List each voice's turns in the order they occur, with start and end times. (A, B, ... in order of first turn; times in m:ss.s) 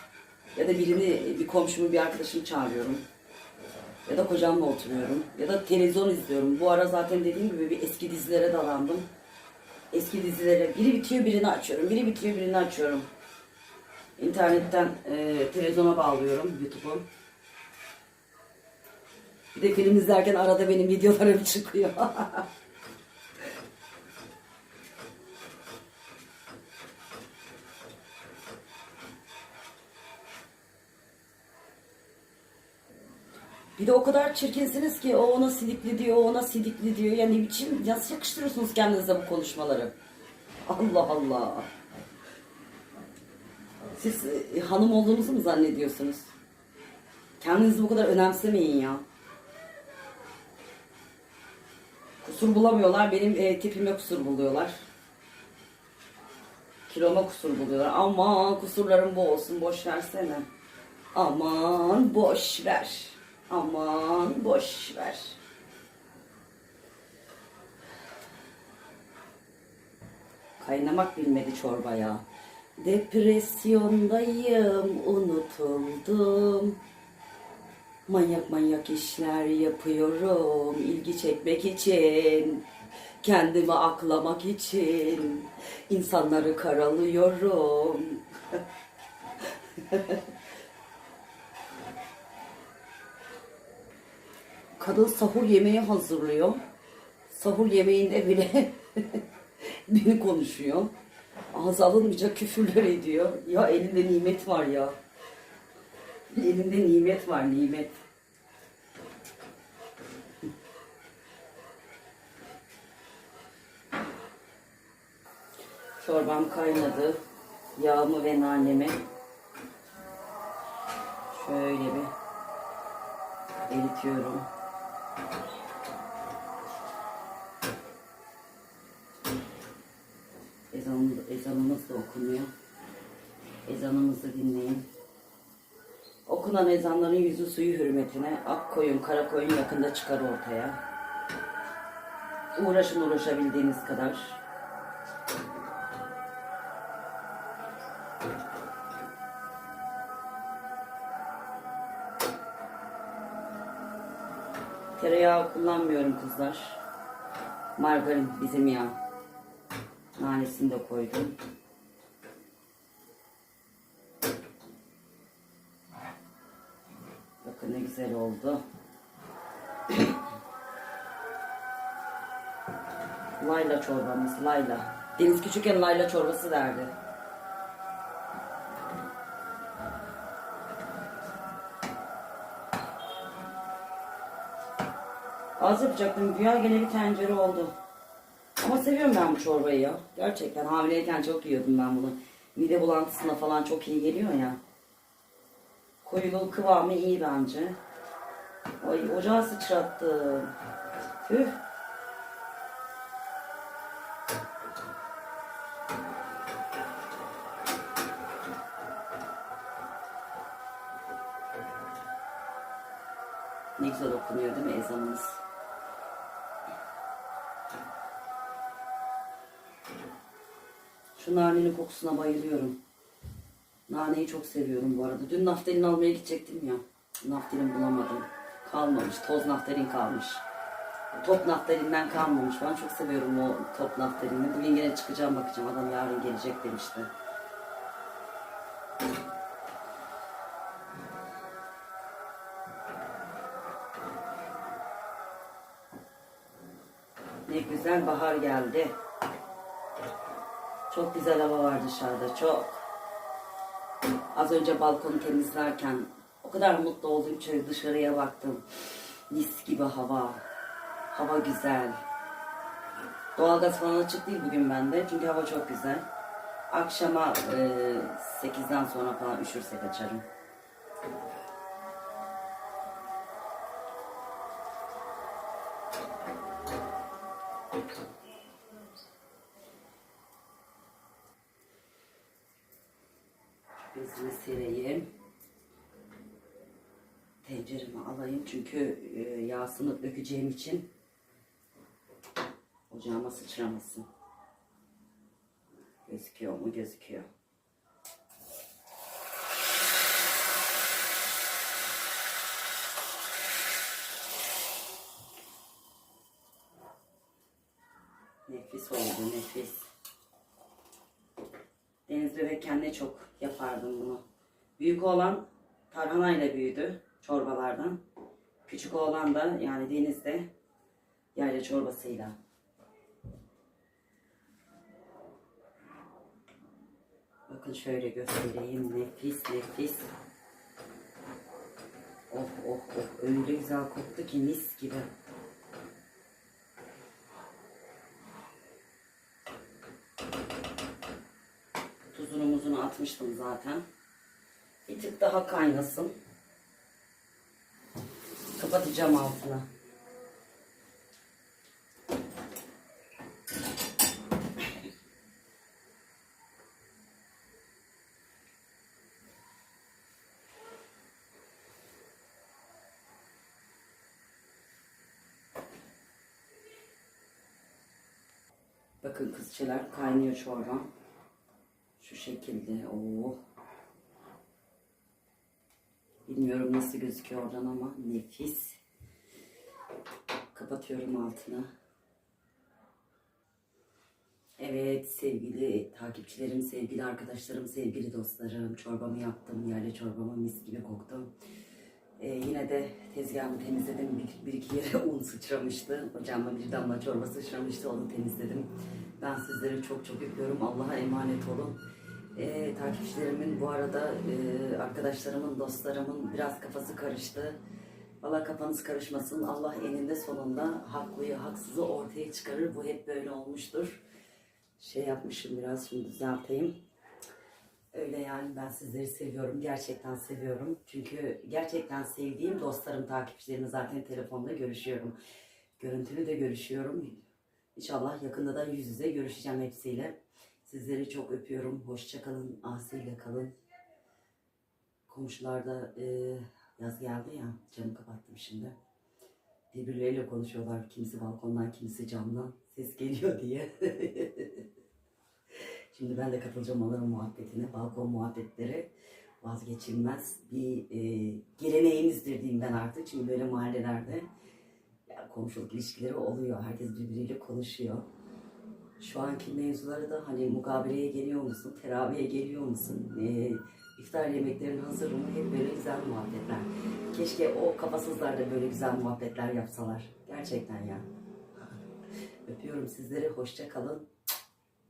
0:00.5-0:03.0 A
0:04.0-0:09.1 A
0:09.9-0:13.1 A
0:14.2-0:17.1 A
0:19.5-0:22.4 A
0:33.8-0:39.9 A
0:40.7-0:41.7 A
0:43.9-0:46.3 A
0:47.4-0:49.0 A
0:52.2-0:54.8 A
0:56.9-1:00.4 A
1:01.1-1:05.4 A
1:10.6-1:12.2 A
1:12.8-1:16.8 A
1:18.1-1:22.6 A
1:23.2-1:28.6 A
1:29.8-1:30.2 A
1:34.8-1:36.6 A
1:37.3-1:40.9 A
1:41.5-1:45.0 A
1:46.3-1:48.0 A
1:56.0-1:57.2 A
1:57.8-1:59.0 A
2:01.3-2:02.1 A
2:03.7-2:04.5 A
2:10.7-2:12.5 A
2:13.6-2:14.9 A
2:16.2-2:20.8 A
2:22.5-2:24.4 A
2:35.0-2:36.8 A
2:37.8-2:39.0 A
2:40.2-2:41.4 A
2:47.4-2:48.6 A
2:53.4-2:56.9 A
3:05.6-3:07.7 A
3:08.6-3:14.6 A
3:16.0-3:17.8 A
3:18.8-3:20.5 A
3:21.2-3:21.6 A
3:33.8-3:35.4 A
3:41.2-3:42.8 A
3:43.9-3:50.4 A
3:51.1-3:57.1 A
4:07.5-4:09.0 A
4:10.9-4:12.8 A
4:14.3-4:18.6 A
4:19.3-4:20.4 A
4:21.1-4:22.0 A
4:23.4-4:26.0 A
4:26.7-4:30.2 A
4:43.8-4:45.1 A
4:47.4-4:50.9 A
4:52.9-4:54.1 A
4:56.1-4:57.3 A
5:08.5-5:09.9 A
5:12.1-5:14.2 A
5:14.8-5:18.0 A
5:18.7-5:20.5 A
5:21.3-5:22.4 A
5:27.5-5:30.1 A
5:32.3-5:35.1 A
5:42.1-5:43.8 A
5:44.8-5:46.1 A
5:48.6-5:49.6 A
6:09.0-6:10.9 A
6:12.0-6:13.4 A
6:16.2-6:18.8 A
6:20.5-6:21.7 A
6:24.6-6:31.3 A
6:32.2-6:41.8 A
6:42.3-6:47.6 A
6:48.2-6:54.0 A
6:54.8-6:56.8 A
6:57.9-7:05.1 A
7:05.8-7:07.2 A
7:07.8-7:13.5 A
7:15.1-7:18.8 A
7:19.7-7:24.6 A
7:25.9-7:28.9 A
7:29.4-7:34.3 A
7:35.1-7:38.0 A
7:39.0-7:51.0 A
7:52.5-7:54.1 A